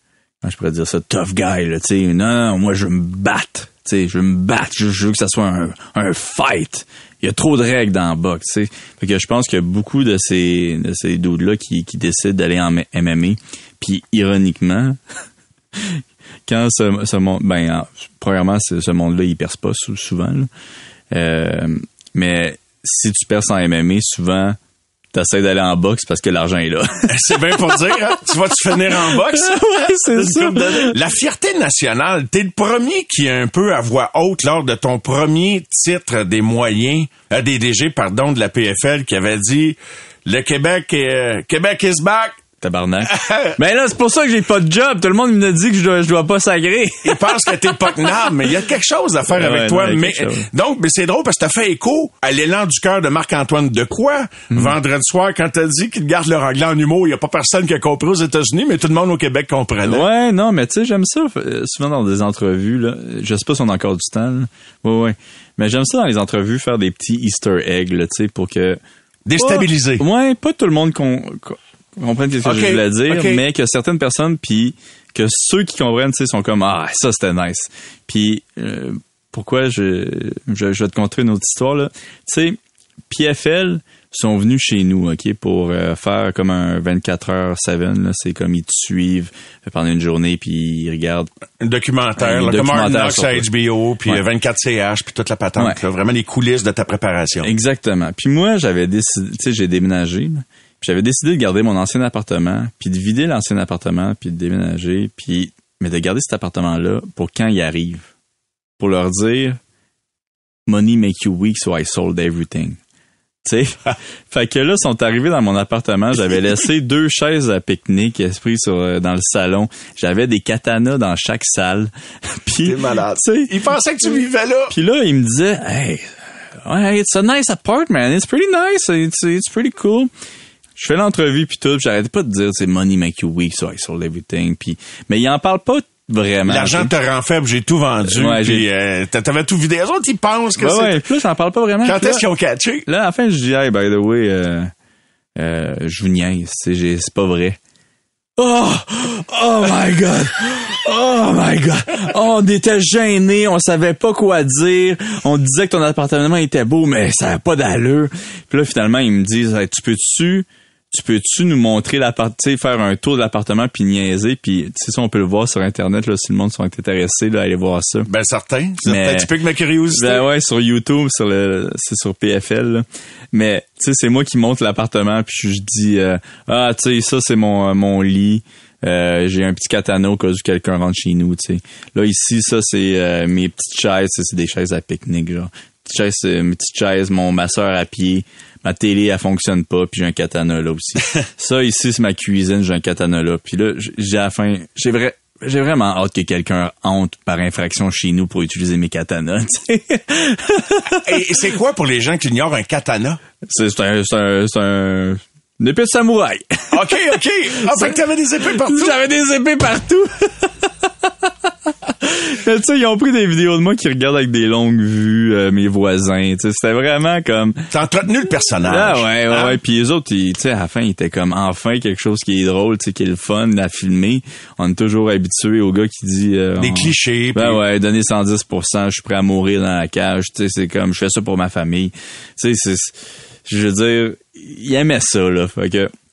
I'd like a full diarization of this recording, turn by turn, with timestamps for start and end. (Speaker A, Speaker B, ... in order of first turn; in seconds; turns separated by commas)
Speaker A: 0.4-15.0, Speaker A: 15.7-20.5, Speaker A: 21.1-24.6, Speaker A: 25.1-27.8, Speaker B: 27.1-42.4, Speaker A: 28.8-30.9, Speaker A: 42.6-47.9, Speaker B: 43.1-43.5, Speaker B: 47.0-60.0, Speaker A: 49.3-50.5, Speaker A: 59.8-68.8, Speaker B: 69.3-70.0, Speaker A: 69.4-82.6, Speaker B: 72.4-73.4, Speaker A: 83.1-91.3, Speaker B: 91.6-97.5, Speaker A: 92.2-93.5, Speaker A: 97.4-108.1, Speaker A: 108.8-109.6, Speaker A: 110.7-112.8, Speaker A: 113.4-123.5, Speaker B: 122.6-124.7, Speaker A: 124.7-130.1, Speaker A: 130.8-136.9, Speaker B: 136.5-141.0, Speaker A: 138.1-138.7, Speaker A: 140.6-142.2, Speaker B: 141.8-142.8, Speaker A: 142.9-144.7, Speaker A: 145.4-147.6, Speaker A: 148.4-168.1, Speaker B: 168.1-170.2, Speaker A: 168.8-169.3, Speaker A: 169.9-201.2, Speaker B: 201.0-203.2, Speaker A: 203.5-207.0, Speaker B: 206.7-208.9, Speaker A: 207.6-217.7, Speaker B: 217.7-219.6, Speaker A: 218.6-235.9, Speaker B: 226.6-227.6